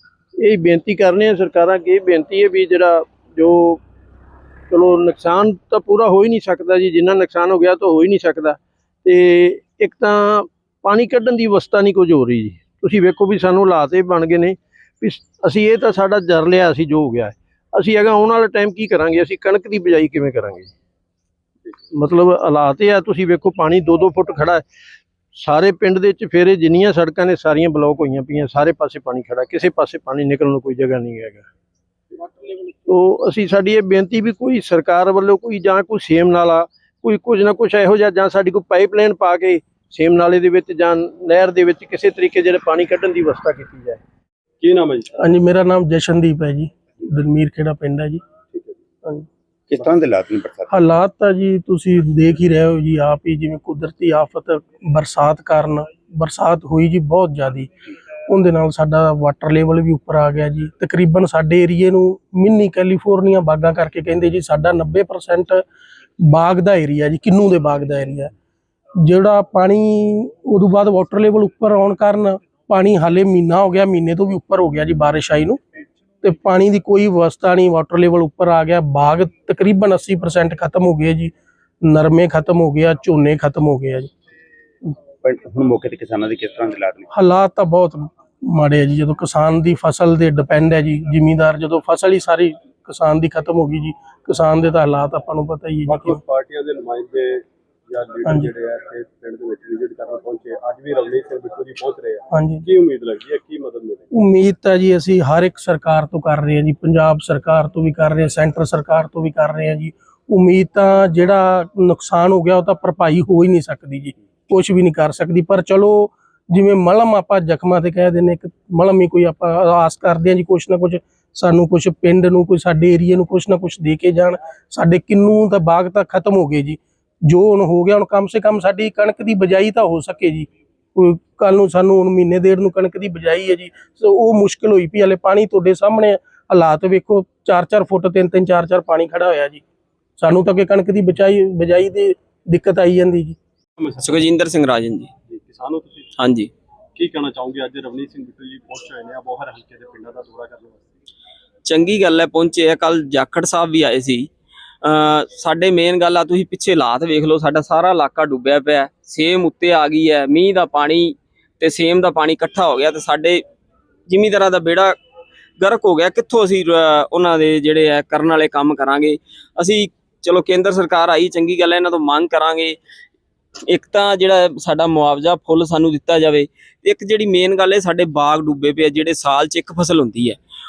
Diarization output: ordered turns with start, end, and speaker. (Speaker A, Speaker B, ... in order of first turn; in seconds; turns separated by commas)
Speaker A: 0.4-3.8, Speaker A: 4.7-20.7, Speaker A: 21.9-24.6, Speaker A: 25.3-31.5, Speaker A: 32.8-44.0, Speaker B: 44.6-45.1, Speaker C: 45.2-48.2, Speaker D: 49.7-50.7, Speaker C: 50.7-57.7, Speaker C: 58.3-65.6, Speaker C: 66.2-68.3, Speaker C: 69.0-75.6, Speaker C: 76.2-81.3, Speaker C: 81.8-84.1, Speaker D: 85.2-87.0, Speaker C: 87.1-96.2, Speaker B: 95.8-104.1, Speaker C: 98.2-98.5, Speaker C: 102.3-102.6, Speaker C: 104.1-139.6, Speaker C: 140.2-143.4, Speaker B: 143.8-144.2, Speaker E: 144.0-145.1, Speaker B: 145.3-146.1, Speaker E: 146.2-146.5, Speaker B: 146.9-150.9, Speaker E: 151.6-154.3, Speaker E: 154.8-163.4, Speaker E: 164.1-165.0, Speaker E: 165.6-172.8, Speaker E: 173.7-180.4